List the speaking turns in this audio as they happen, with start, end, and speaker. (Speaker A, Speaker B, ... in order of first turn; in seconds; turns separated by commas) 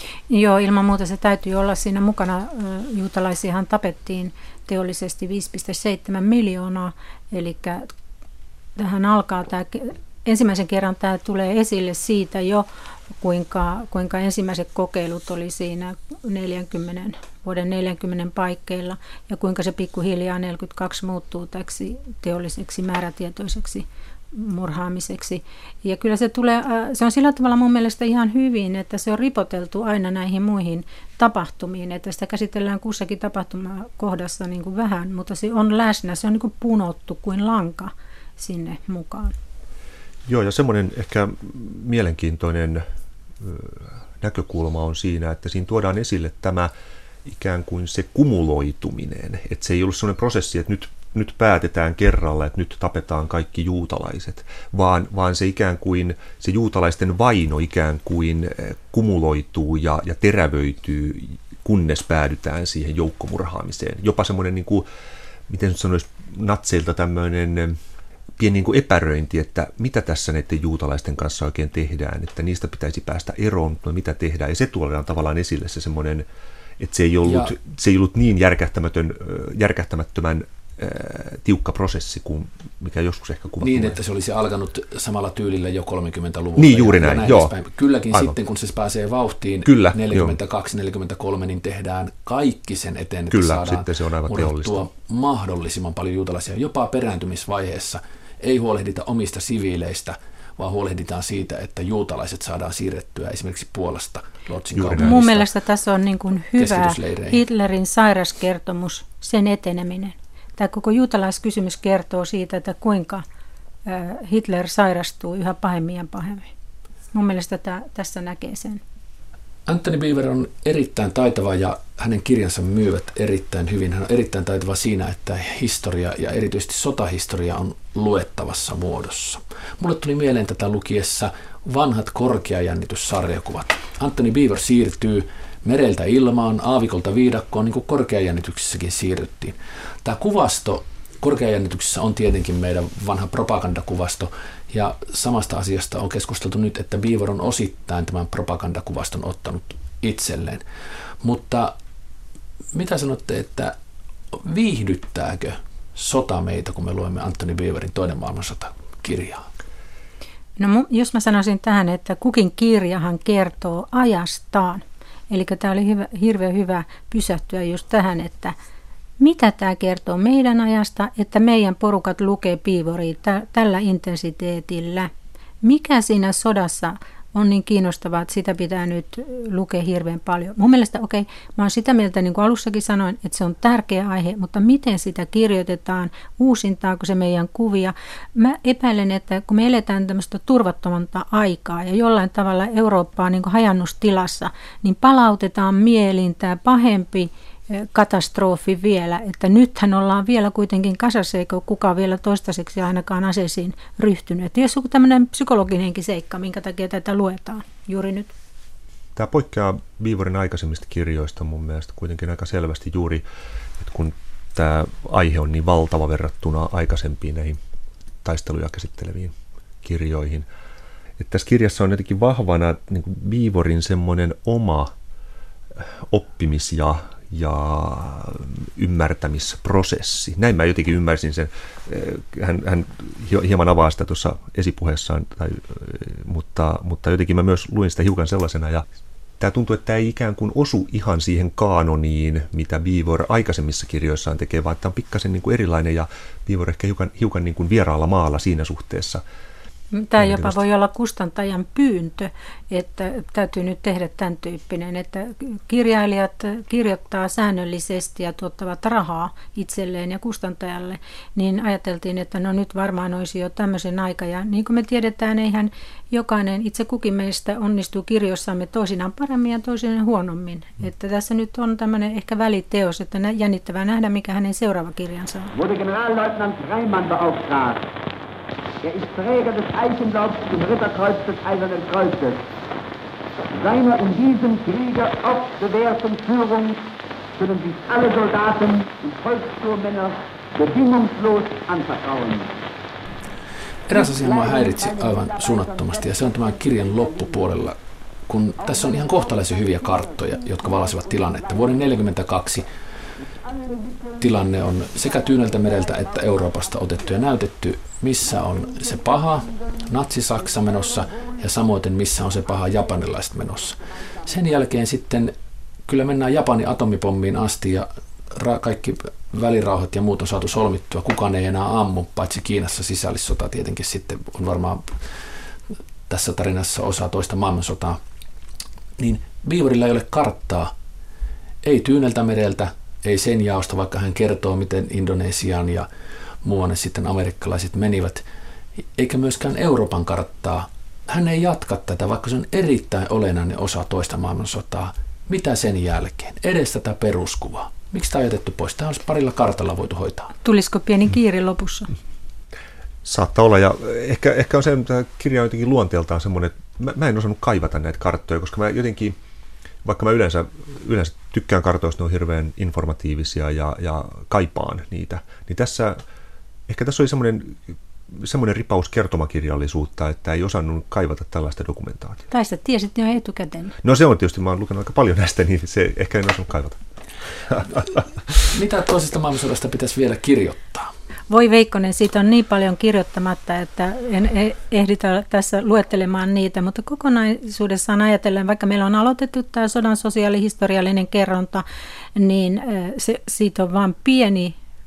Speaker A: 0.3-7.9, Speaker A: 8.8-12.7, Speaker A: 13.2-39.3, Speaker B: 40.2-42.8, Speaker B: 43.4-46.7, Speaker B: 47.2-64.9, Speaker B: 65.5-67.8, Speaker B: 68.4-76.2, Speaker B: 76.8-84.0, Speaker C: 77.2-77.5, Speaker C: 83.6-105.4, Speaker B: 86.5-87.5, Speaker B: 88.1-88.4, Speaker B: 89.6-90.4, Speaker B: 93.3-94.9, Speaker B: 104.7-105.4, Speaker A: 105.0-113.2, Speaker C: 106.6-107.4, Speaker A: 113.8-116.5, Speaker A: 117.1-118.8, Speaker C: 119.7-150.6, Speaker C: 151.2-151.8, Speaker C: 152.7-153.7, Speaker C: 154.3-159.4, Speaker A: 160.6-168.5, Speaker A: 169.2-175.1, Speaker A: 175.6-208.3, Speaker B: 209.2-213.2, Speaker B: 213.8-217.6, Speaker B: 218.2-220.5, Speaker B: 221.2-224.9, Speaker B: 225.8-238.8, Speaker B: 239.4-249.2, Speaker A: 249.9-275.5, Speaker B: 250.2-250.6, Speaker D: 275.5-277.9, Speaker D: 278.8-282.4, Speaker D: 283.5-292.6, Speaker C: 293.9-297.8, Speaker D: 293.9-297.6, Speaker C: 298.3-302.6, Speaker D: 298.6-302.1, Speaker D: 303.4-307.4, Speaker C: 304.2-315.3, Speaker D: 308.2-309.8, Speaker D: 310.3-311.5, Speaker D: 312.3-313.1, Speaker D: 314.0-314.6, Speaker C: 315.9-325.0, Speaker C: 326.1-328.0, Speaker C: 329.0-330.7, Speaker C: 331.6-335.9, Speaker C: 336.4-338.2, Speaker C: 338.9-350.3, Speaker A: 350.4-351.9, Speaker B: 353.0-359.1, Speaker B: 359.8-366.0, Speaker B: 366.7-372.2, Speaker A: 372.3-373.8, Speaker B: 373.8-376.8, Speaker B: 377.5-378.5, Speaker C: 378.5-380.9, Speaker A: 381.3-391.6, Speaker A: 392.1-394.6